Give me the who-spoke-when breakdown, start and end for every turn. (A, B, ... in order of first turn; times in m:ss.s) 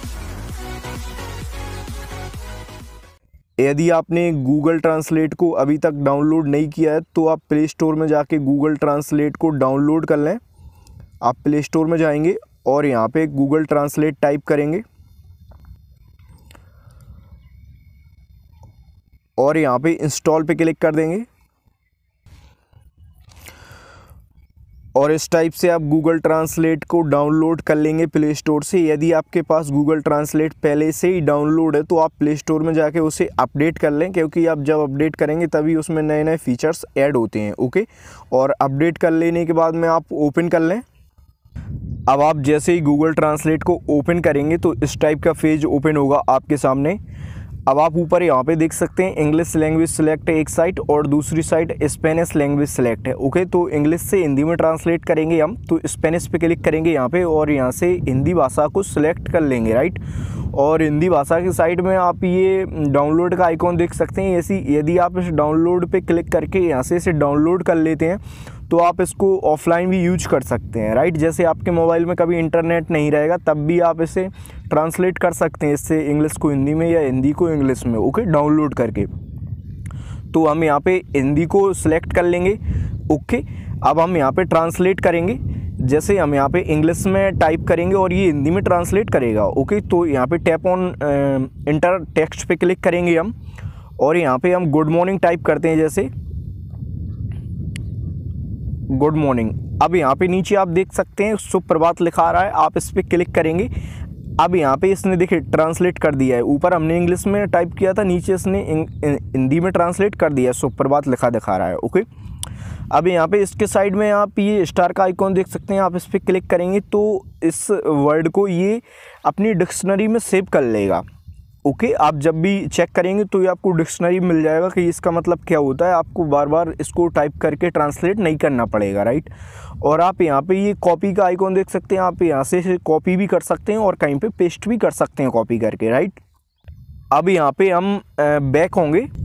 0:03.6-0:10.4 A
0:11.2-0:14.8 A
0:19.4-0:21.3 A
0:25.0-0:40.8 A
0:42.1-0:47.0 A
0:47.7-1:00.0 A
1:00.5-1:19.1 A
1:20.3-1:33.3 A
1:34.0-1:36.1 A
1:38.9-1:43.7 A
1:44.4-1:52.1 A
1:52.9-2:01.0 A
2:01.6-2:16.2 A
2:17.1-2:19.1 A